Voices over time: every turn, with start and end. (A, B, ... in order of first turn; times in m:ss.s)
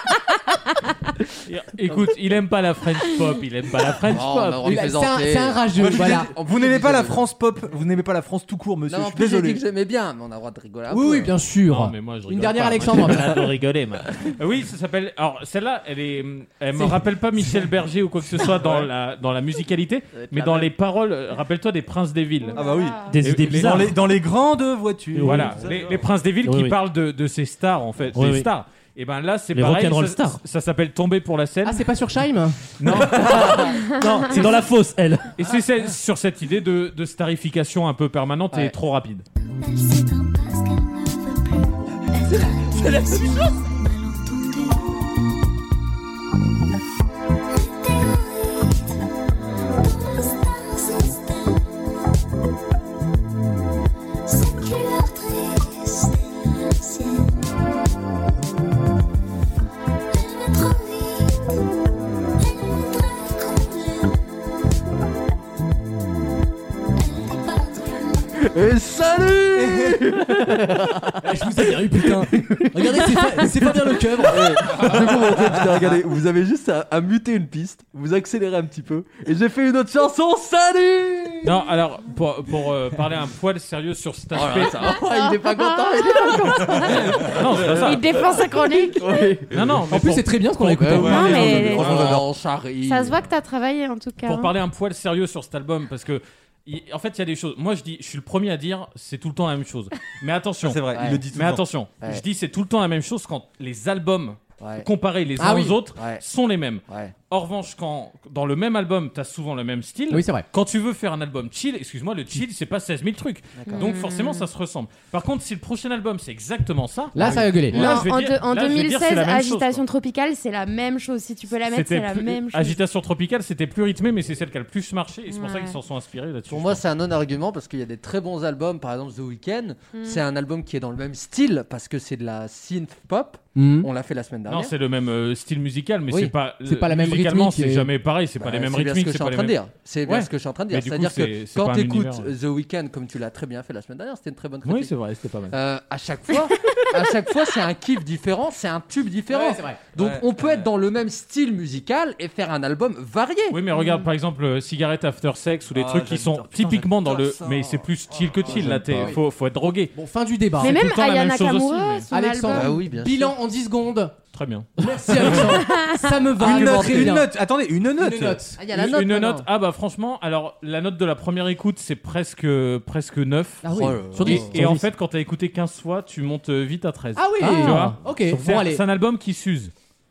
0:01.5-0:04.8 A
0:03.9-0:07.2 B
0:04.6-0:06.3 C
0:05.8-0:09.6 D
0:08.9-0:11.3 B
0:10.9-0:13.5 C
0:11.7-0:22.6 A
0:16.8-0:17.0 C
0:18.6-0:18.9 D
0:20.1-0:20.7 B
0:22.5-0:23.2 E
0:22.5-0:26.0 D
0:23.0-0:24.0 F
0:23.2-0:23.9 A
0:25.1-0:25.6 F
0:25.2-0:31.9 A
0:26.4-0:26.7 F
0:28.1-0:28.5 F
0:29.5-0:30.4 F
0:31.6-0:32.6 C
0:32.8-0:33.7 A
0:32.9-0:35.4 F
0:33.3-0:33.7 B
0:34.3-0:34.6 A
0:35.4-0:39.2 A
0:39.5-0:45.6 G
0:47.5-0:52.2 G
0:54.2-0:58.6 G
1:00.1-1:01.7 G
1:02.4-1:04.8 G
1:07.0-1:08.4 G
1:08.4-1:11.2 B
1:09.6-1:09.9 C
1:11.2-1:14.7 C
1:12.0-1:21.5 B
1:14.7-1:15.9 D
1:21.4-1:25.0 A
1:24.3-1:29.5 B
1:25.0-1:29.3 E
1:26.8-1:27.3 D
1:27.2-1:28.1 A
1:29.5-1:31.8 A
1:29.9-1:31.4 C
1:30.8-1:33.3 B
1:30.8-1:32.3 D
1:31.0-1:32.1 E
1:32.8-1:34.5 E
1:34.2-1:59.8 A
1:40.6-1:41.6 D
1:40.9-1:41.2 B
1:44.6-1:44.9 B
1:45.4-1:45.8 C
1:46.0-1:46.2 B
1:46.9-1:47.1 B
1:50.1-1:50.4 C
1:53.6-1:53.9 B
1:53.6-1:54.4 E
1:57.1-1:58.0 C
1:57.7-2:02.8 E
2:01.7-2:06.8 A
2:05.3-2:05.8 E
2:06.5-2:14.7 B
2:09.9-2:10.2 E
2:13.5-2:13.9 C
2:14.5-2:22.3 A
2:16.6-2:17.9 C
2:18.4-2:24.9 B
2:24.6-2:25.6 A
2:25.5-2:33.6 B
2:29.3-2:29.8 C
2:30.0-2:30.7 D
2:33.5-2:39.9 A
2:33.7-2:34.1 E
2:35.7-2:39.1 D
2:38.5-2:39.1 B
2:39.9-2:40.8 C
2:40.6-2:42.1 A
2:40.6-2:42.7 E
2:42.1-2:44.1 C
2:42.5-2:43.3 B
2:44.3-2:45.4 A
2:44.8-2:47.3 C
2:45.6-2:46.1 E
2:46.4-2:47.2 B
2:46.4-2:48.7 D
2:48.0-2:48.6 C
2:48.6-2:49.4 B
2:48.7-2:59.7 A
2:53.6-2:54.4 C
2:53.7-2:54.5 B
2:54.2-2:54.8 F
2:57.2-2:58.8 C